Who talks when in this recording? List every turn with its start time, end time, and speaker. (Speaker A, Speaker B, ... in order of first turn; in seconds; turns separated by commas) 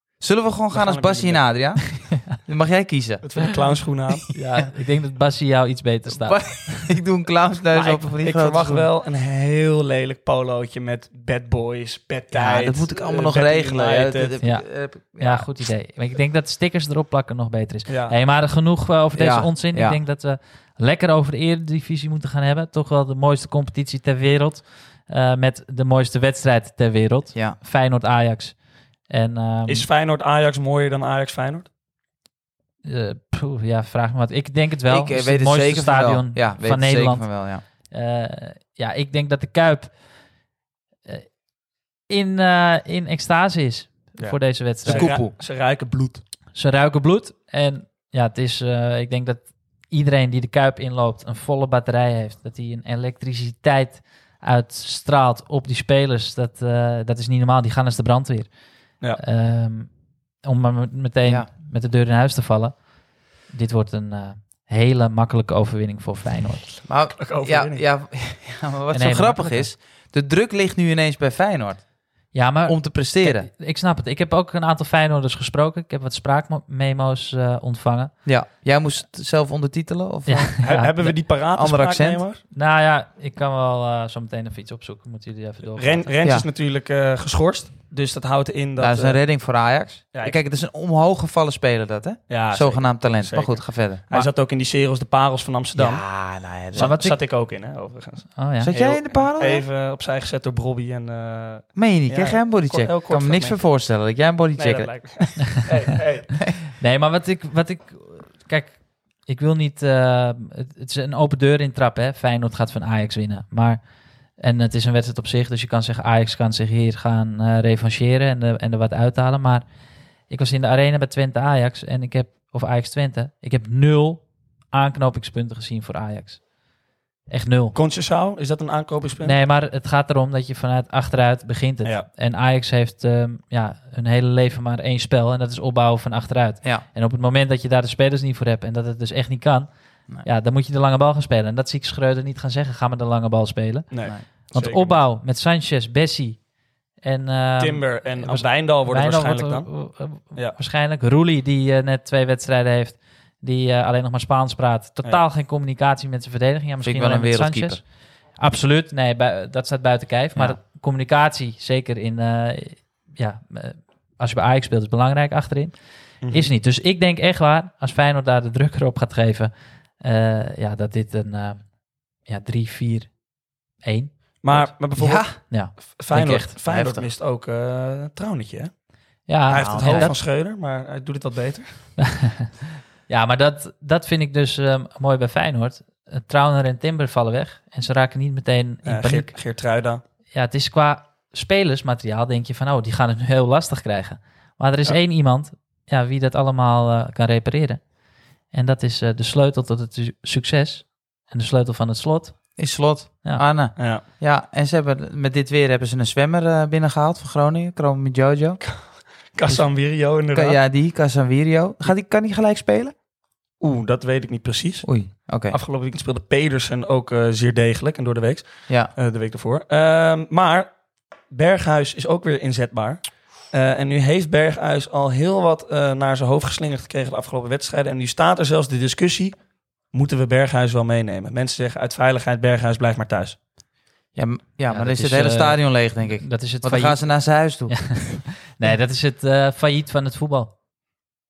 Speaker A: 0.2-3.3, Speaker B: 0.7-1.4, Speaker B: 3.2-4.3, Speaker C: 4.3-7.0, Speaker A: 6.1-8.9, Speaker B: 7.7-14.4, Speaker A: 12.3-15.5, Speaker C: 14.4-14.7, Speaker C: 15.2-29.9, Speaker B: 17.9-18.2, Speaker A: 19.1-20.0, Speaker B: 29.7-31.7, Speaker C: 32.8-40.0, Speaker A: 34.9-37.6, Speaker C: 41.1-41.4, Speaker C: 42.1-45.2, Speaker B: 44.2-46.2, Speaker A: 44.9-45.3, Speaker C: 46.5-58.5, Speaker C: 59.1-59.9, Speaker C: 60.4-62.8, Speaker C: 63.5-66.7, Speaker A: 66.9-71.8, Speaker B: 67.1-67.8, Speaker C: 68.9-69.7, Speaker C: 72.3-78.1, Speaker A: 72.7-73.5, Speaker A: 78.3-80.6, Speaker C: 80.3-81.1, Speaker B: 80.6-82.4, Speaker A: 81.5-82.2, Speaker C: 82.5-86.2, Speaker B: 85.8-89.2, Speaker A: 88.8-94.3, Speaker B: 92.3-103.6, Speaker A: 95.8-97.1, Speaker C: 96.8-97.2, Speaker C: 98.4-98.7, Speaker A: 98.6-99.7, Speaker A: 101.8-105.3, Speaker B: 104.6-106.5, Speaker C: 106.8-113.8, Speaker C: 114.4-119.7, Speaker C: 120.3-126.4, Speaker C: 127.3-127.8, Speaker B: 127.8-129.4, Speaker C: 129.2-139.7, Speaker C: 140.2-146.4, Speaker B: 143.9-145.0, Speaker C: 147.0-157.8, Speaker B: 147.6-149.7, Speaker A: 156.8-157.8, Speaker C: 158.4-165.8, Speaker B: 166.2-166.5, Speaker C: 166.3-171.7, Speaker C: 172.2-173.2, Speaker C: 173.8-174.7, Speaker B: 174.4-178.7, Speaker A: 175.0-175.4, Speaker C: 175.5-176.5, Speaker A: 176.7-177.1, Speaker C: 179.3-180.1, Speaker B: 179.5-181.7, Speaker A: 179.5-180.2, Speaker C: 182.0-182.5, Speaker C: 183.1-189.3, Speaker B: 188.9-190.0, Speaker C: 190.3-197.8, Speaker C: 198.5-202.6, Speaker A: 202.6-208.7, Speaker B: 203.8-204.0, Speaker B: 209.3-210.6, Speaker A: 209.5-212.9, Speaker B: 213.6-220.7, Speaker A: 214.8-215.6, Speaker B: 221.3-229.4, Speaker B: 229.9-233.4, Speaker A: 234.2-238.2, Speaker C: 234.7-237.1, Speaker C: 237.7-240.5